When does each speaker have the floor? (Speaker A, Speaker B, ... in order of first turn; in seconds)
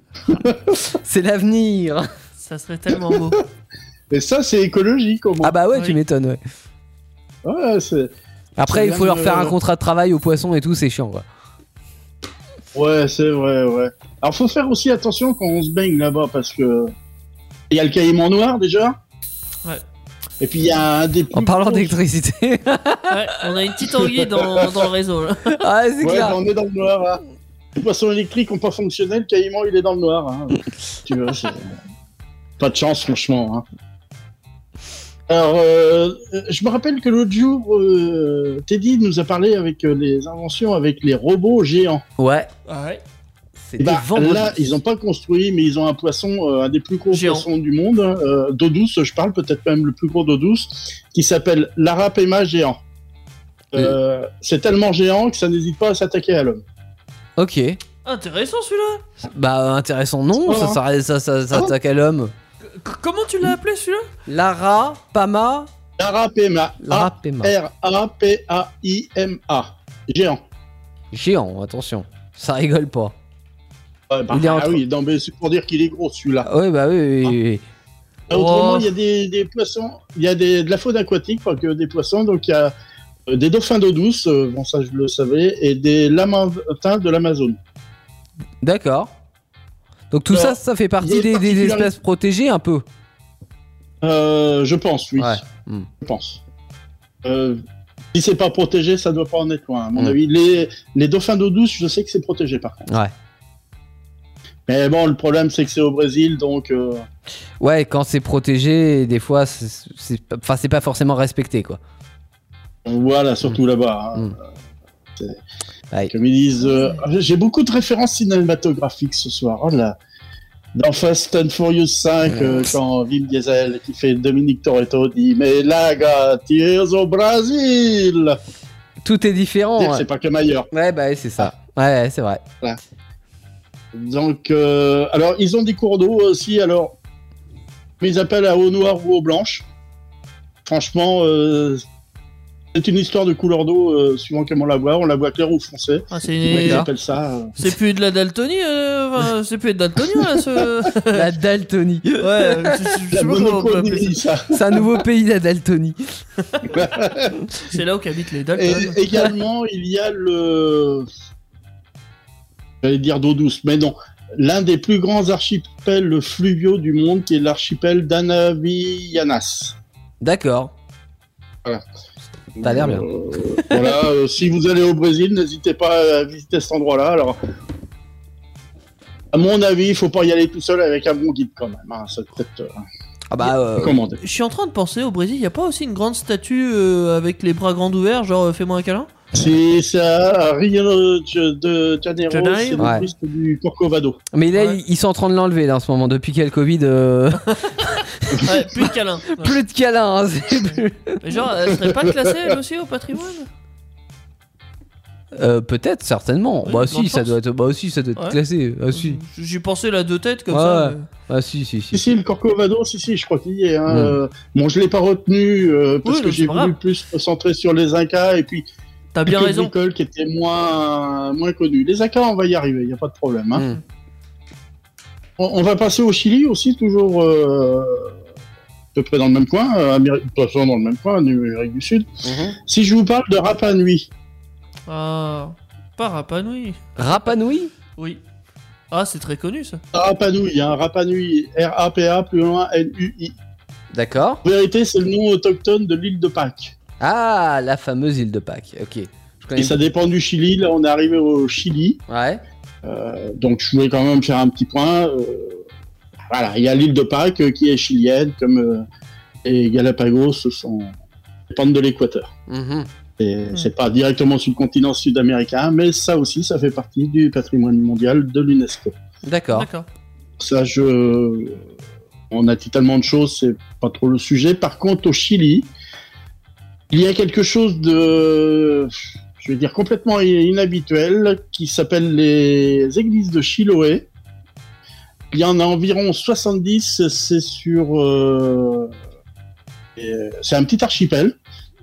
Speaker A: 0.8-2.1, 5.4-6.4, 8.6-11.2, 21.3-23.3, 25.6-26.4, 42.2-42.5, 43.6-44.8, 57.4-57.8, 59.2-62.3, 64.3-65.7, 66.8-67.5, 71.1-73.1, 74.3-74.8, 76.5-77.6, 88.6-89.1, 90.1-92.8, 95.2-95.9, 102.9-103.1, 107.6-111.8, 129.0-130.1, 130.7-132.4, 146.5-146.9, 151.1-152.8, 154.5-156.1, 170.2-170.7, 172.6-173.1, 173.6-174.0, 183.3-184.0, 192.8-193.1, 194.3-198.5, 199.4-201.2, 205.3-209.2, 210.5-212.0, 213.9-214.2, 232.2-232.6, 237.0-237.7, 243.9-244.4, 247.0-249.8, 252.1-252.4, 262.5-262.9, 269.2-269.7
Speaker B: 2.4-3.4, 5.7-6.0, 23.1-25.6, 42.7-43.0, 47.1-47.5, 58.0-59.0, 62.7-64.1, 78.3-78.9, 146.1-146.9, 147.6-151.3, 152.2-154.2, 157.6-159.0, 184.2-189.1, 192.3-192.9, 197.4-199.6, 201.2-203.5, 206.7-207.4, 208.9-211.1, 216.1-216.8, 219.1-219.7, 234.9-237.3, 238.0-238.2, 238.9-239.8, 269.5-269.9
Speaker C: 3.1-3.4, 4.1-5.5, 7.4-8.1, 8.7-9.6, 12.7-16.9, 17.7-19.0, 20.4-22.0, 26.0-27.2, 27.8-31.7, 32.6-33.7, 35.3-42.0, 43.8-52.8, 53.7-56.6, 60.4-60.8, 66.0-70.4, 74.1-76.5, 78.3-82.7, 83.3-87.6, 90.3-91.9, 94.0-95.4, 96.0-96.4, 97.2-97.6, 98.1-102.9, 104.7-107.1, 112.9-114.4, 116.1-120.0, 120.8-128.4, 129.8-130.7, 133.9-136.9, 138.0-139.6, 140.7-141.8, 142.7-147.6, 153.1-154.8, 156.7-157.5, 158.6-161.1, 162.8-169.8, 172.6-177.4, 179.3-182.8, 183.4-184.2, 189.3-194.2, 201.8-202.4, 211.9-218.7, 219.3-223.7, 225.4-228.1, 228.9-232.1, 232.7-234.1, 239.9-243.3, 244.4-246.8, 249.6-252.0, 252.8-255.6, 256.3-258.9, 259.4-260.9, 261.5-262.3, 263.2-268.9, 270.4-271.6, 272.3-275.7, 276.9-284.1, 285.3-288.9, 290.0-291.3